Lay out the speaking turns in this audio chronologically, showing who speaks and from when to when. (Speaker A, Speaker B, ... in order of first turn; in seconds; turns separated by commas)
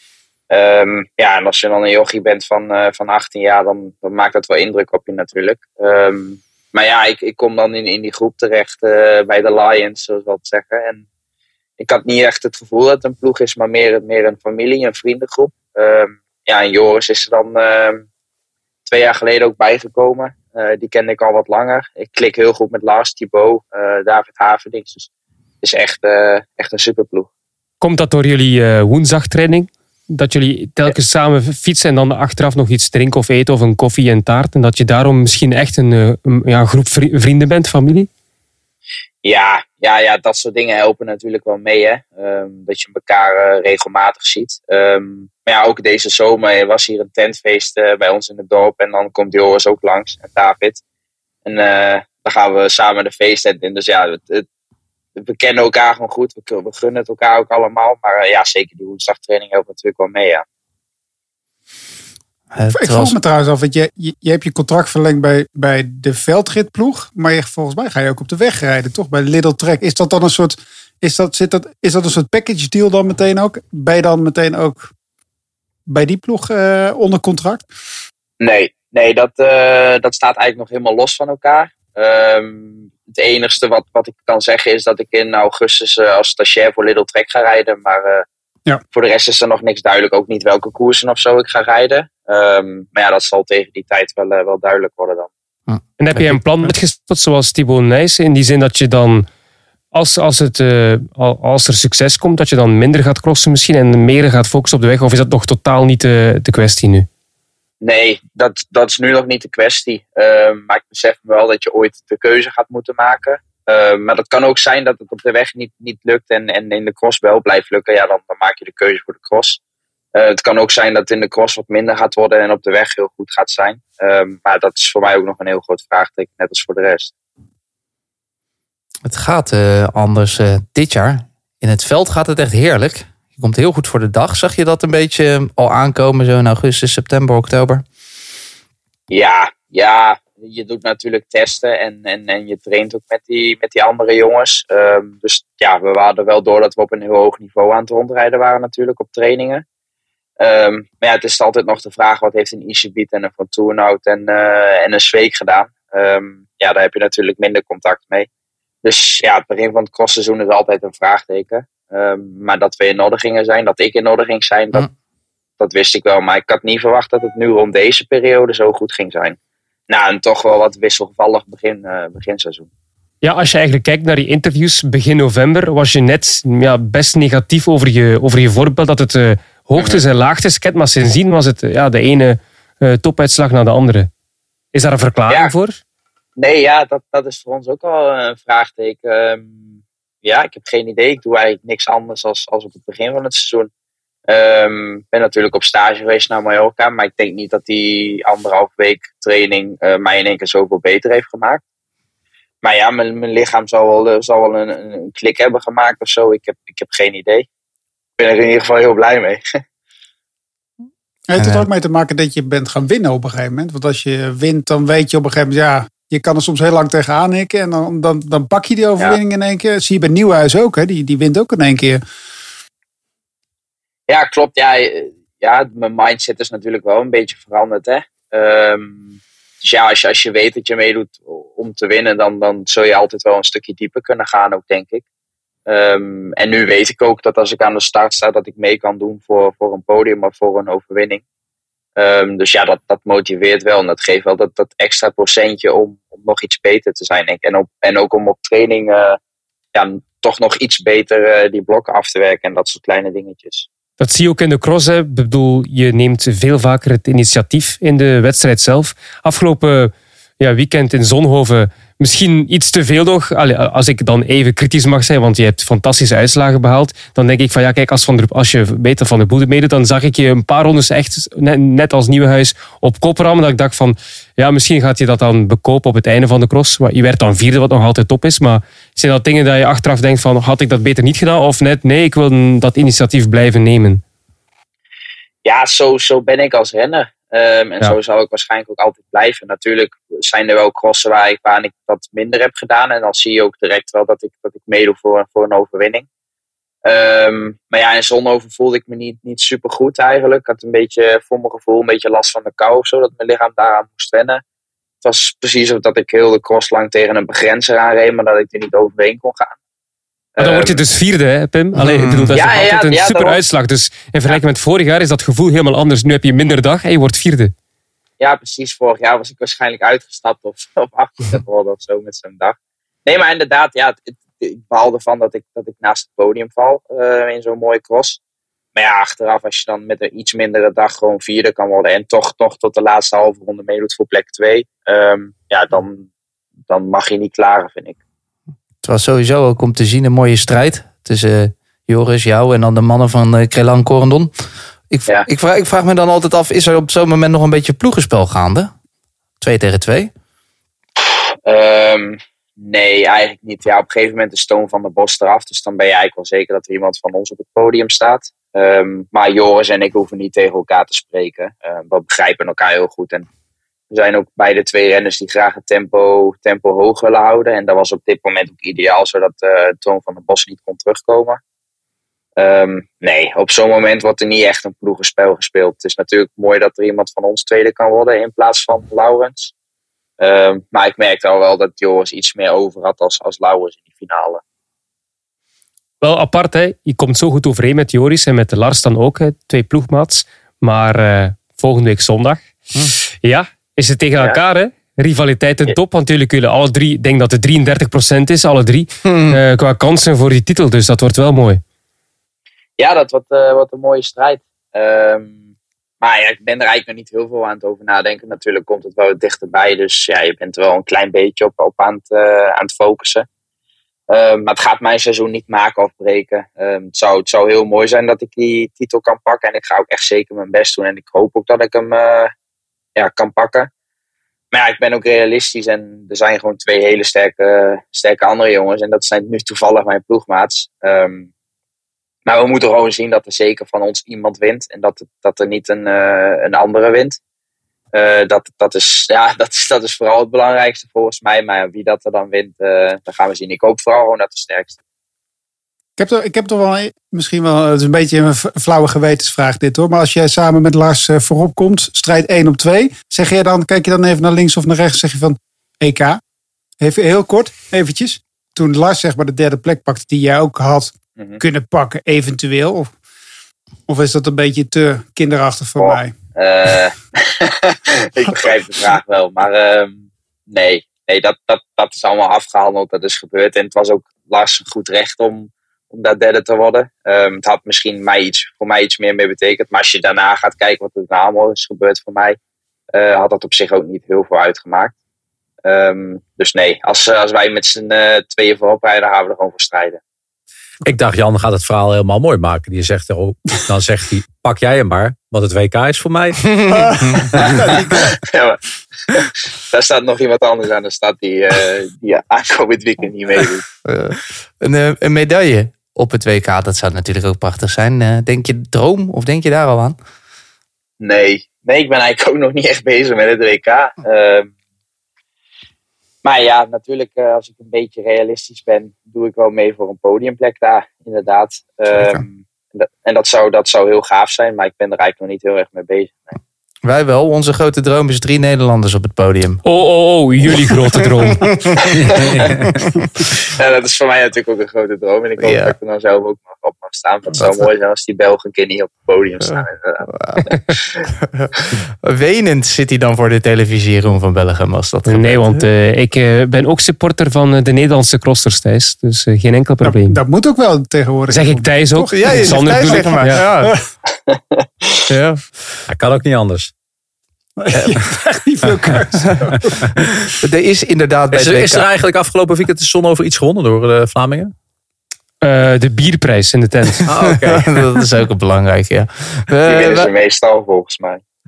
Speaker A: 0.5-11.0, Speaker A: 11.8-18.1, Speaker A: 18.9-25.1, Speaker A: 25.6-27.3, Speaker B: 27.8-38.1, Speaker A: 39.2-50.8, Speaker A: 51.5-54.5, Speaker A: 55.2-60.5, Speaker C: 62.5-63.2, Speaker D: 62.7-74.9, Speaker D: 75.9-77.7, Speaker A: 78.4-88.2, Speaker A: 88.9-95.3, Speaker C: 95.7-96.7, Speaker B: 96.0-99.3, Speaker B: 99.9-107.1, Speaker A: 107.8-119.6, Speaker A: 120.2-127.1, Speaker C: 129.1-137.8, Speaker A: 139.1-149.6, Speaker A: 150.4-158.3, Speaker A: 158.8-164.9, Speaker A: 165.6-169.4, Speaker A: 169.9-172.7, Speaker B: 173.2-184.1, Speaker A: 179.8-180.0, Speaker B: 184.7-185.8, Speaker A: 186.4-189.6, Speaker A: 190.2-193.7, Speaker A: 194.3-201.6, Speaker A: 202.6-207.5, Speaker A: 208.2-209.4, Speaker D: 211.3-222.0, Speaker C: 211.4-211.7, Speaker A: 224.1-235.0, Speaker A: 235.7-241.2, Speaker A: 242.0-249.2, Speaker A: 249.7-253.7, Speaker B: 254.0-284.0, Speaker A: 285.4-296.1, Speaker A: 296.9-304.4, Speaker A: 305.0-309.6, Speaker A: 310.4-310.8, Speaker B: 310.4-317.5, Speaker C: 311.8-312.3, Speaker A: 312.3-313.4, Speaker A: 318.2-328.2, Speaker A: 328.8-336.1, Speaker A: 336.7-338.0, Speaker C: 338.8-344.3, Speaker C: 344.9-348.7, Speaker C: 349.4-350.1, Speaker A: 351.5-363.3, Speaker A: 363.9-371.4, Speaker A: 372.4-379.5, Speaker A: 380.2-384.4, Speaker B: 386.0-392.4, Speaker B: 393.2-401.6, Speaker C: 399.0-399.4, Speaker A: 402.8-405.4, Speaker A: 406.0-413.3, Speaker A: 414.1-422.3, Speaker A: 423.0-423.7, Speaker A: 424.5-431.3, Speaker A: 432.3-437.2, Speaker A: 437.9-444.8, Speaker D: 446.0-456.2, Speaker D: 456.8-462.9, Speaker D: 463.9-466.1, Speaker A: 465.8-482.4, Speaker A: 482.9-484.9, Speaker A: 485.6-490.0, Speaker E: 490.9-496.5, Speaker C: 496.4-497.4, Speaker D: 496.7-498.1, Speaker A: 498.1-503.6, Speaker C: 503.9-510.0, Speaker A: 511.0-514.5, Speaker A: 516.2-526.4, Speaker C: 521.9-522.2, Speaker C: 526.8-529.6, Speaker B: 529.6-531.4, Speaker C: 531.4-533.2, Speaker A: 531.8-532.6, Speaker A: 533.3-541.0, Speaker C: 535.4-535.8, Speaker C: 539.4-540.5, Speaker C: 541.2-545.6, Speaker B: 545.1-550.2, Speaker D: 549.8-553.8, Speaker B: 551.3-553.4, Speaker C: 552.1-553.8, Speaker A: 554.3-555.0, Speaker C: 555.1-555.4, Speaker E: 555.9-556.7, Speaker D: 557.6-560.3, Speaker C: 560.4-561.9, Speaker E: 561.3-564.5, Speaker B: 565.4-567.1, Speaker E: 567.1-567.9, Speaker C: 567.2-570.1, Speaker A: 569.6-571.2